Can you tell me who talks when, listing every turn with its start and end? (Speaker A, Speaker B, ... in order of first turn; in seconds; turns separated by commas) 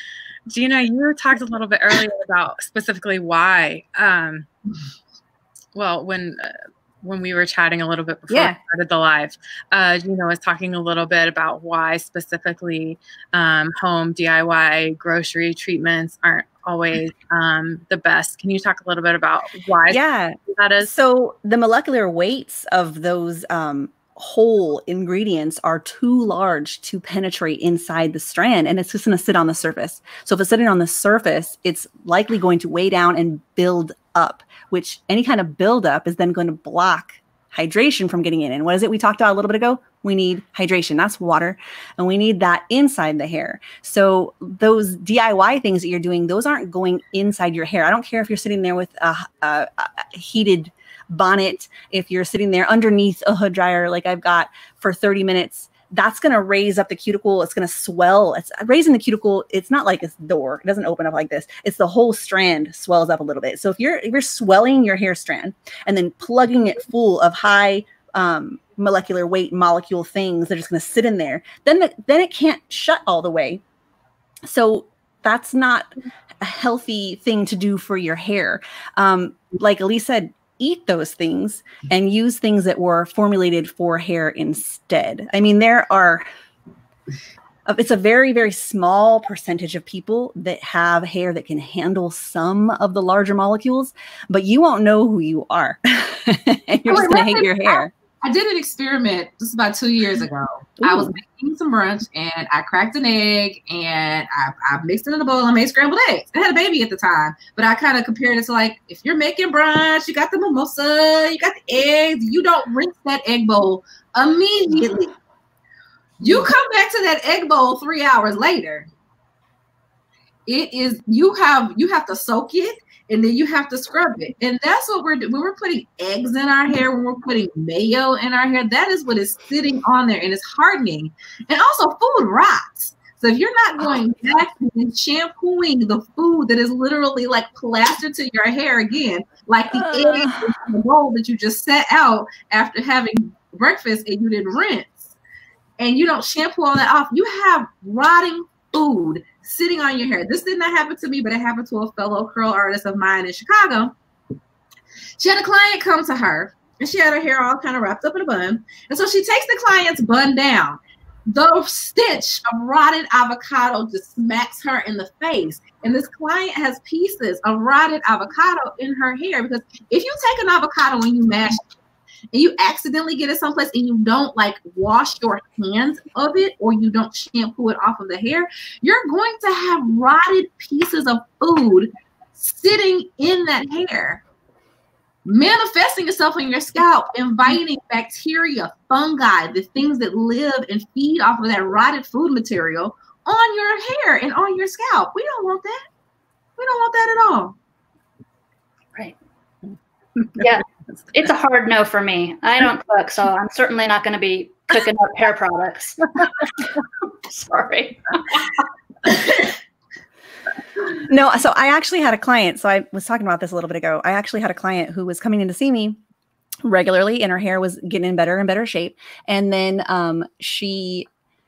Speaker A: 0.5-4.5, Speaker A: 5.7-20.9, Speaker B: 8.3-8.6, Speaker B: 19.9-73.6, Speaker B: 74.4-86.2, Speaker B: 87.7-97.9, Speaker C: 96.9-115.2, Speaker B: 100.8-101.2, Speaker C: 116.2-118.9, Speaker C: 120.5-145.1, Speaker B: 139.7-140.6, Speaker C: 145.8-153.9, Speaker C: 155.2-171.7, Speaker C: 172.3-184.2, Speaker C: 185.2-195.8, Speaker C: 196.6-197.6, Speaker D: 200.3-206.7, Speaker D: 207.3-209.5, Speaker B: 211.0-216.0, Speaker B: 216.7-221.1